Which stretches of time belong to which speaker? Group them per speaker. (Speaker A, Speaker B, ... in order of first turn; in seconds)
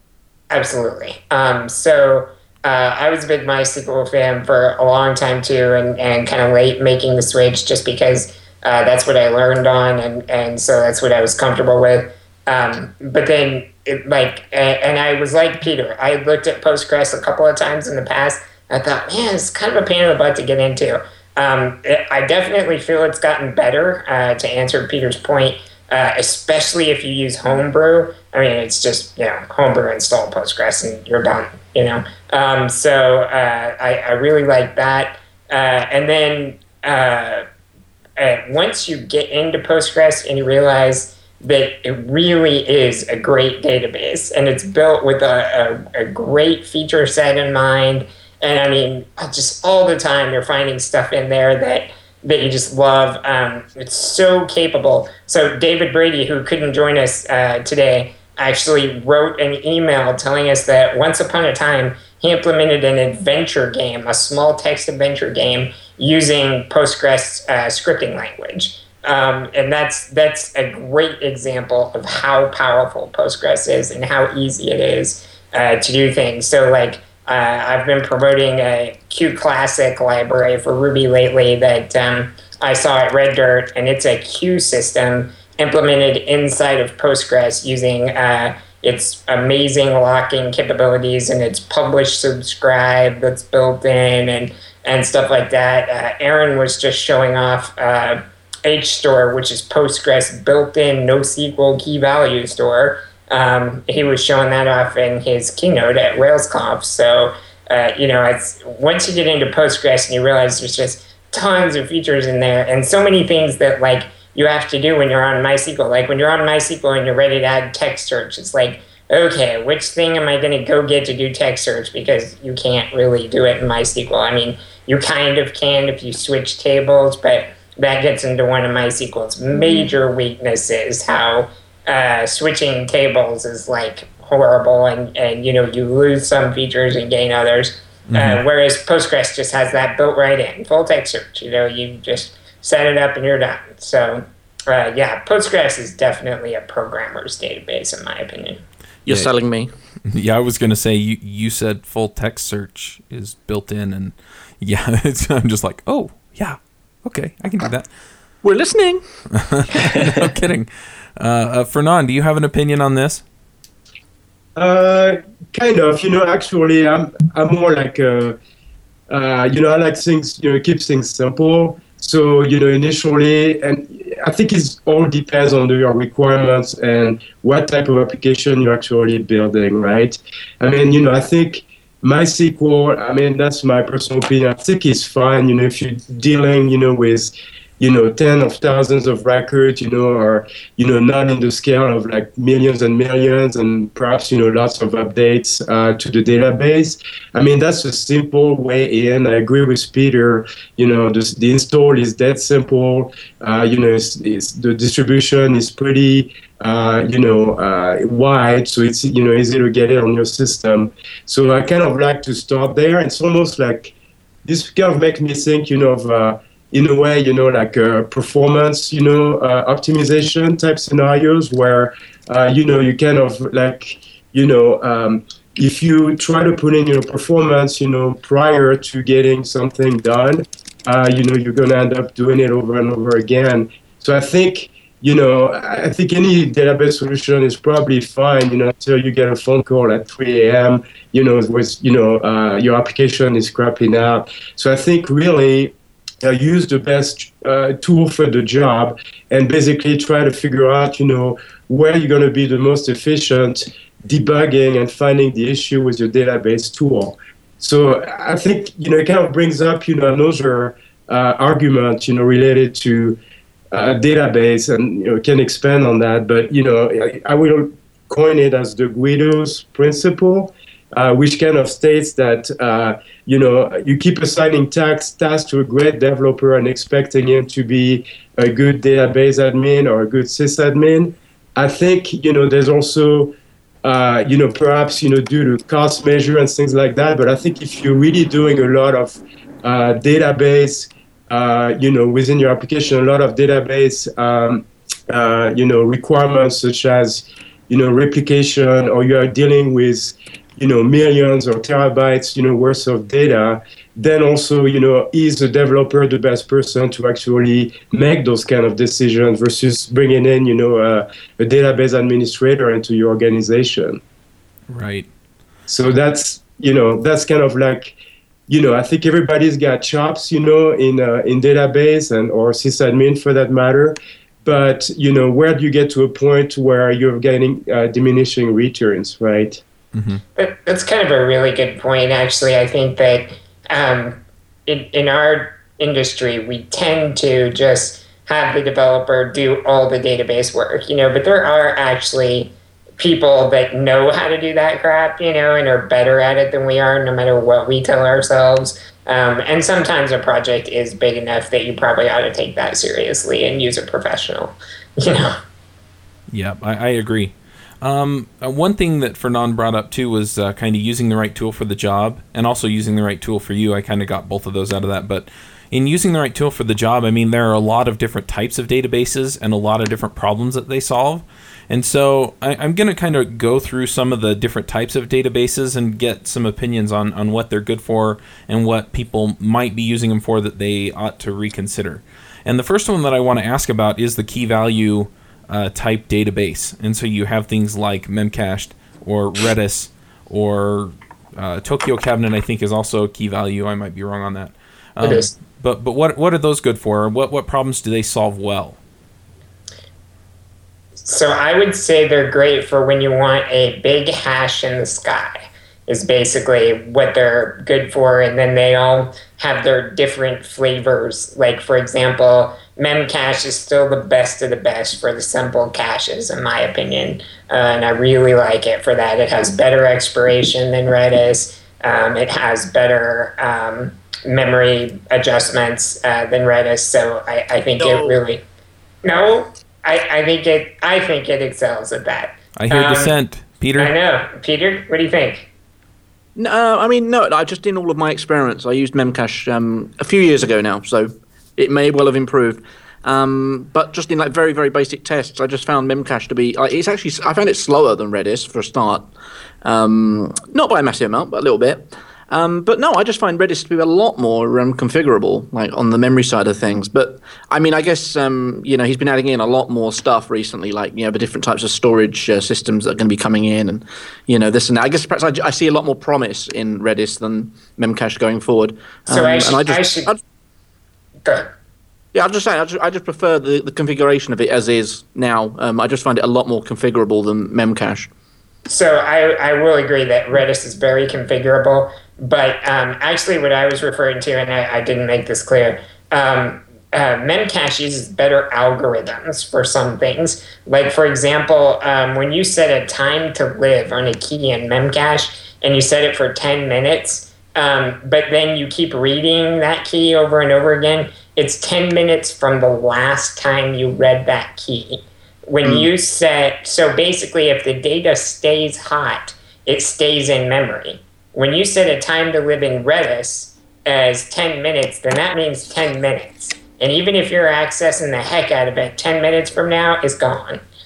Speaker A: 0.5-37.4, 38.2-148.6, 330.4-355.4, 395.0-395.3, 401.0-428.4, 429.0-433.1, 433.8-435.5, 469.1-470.1, 471.2-471.5, 478.7-520.6
Speaker B: 138.1-138.4, 150.1-157.9, 159.3-163.2, 314.7-315.1, 329.9-330.2, 356.3-398.8, 432.6-433.9
Speaker C: 149.1-149.7, 158.4-159.0, 427.8-428.2, 436.4-449.1, 449.6-470.2, 472.1-478.1
Speaker D: 164.6-168.4, 169.1-263.2, 263.7-314.0, 315.7-317.9, 318.5-329.6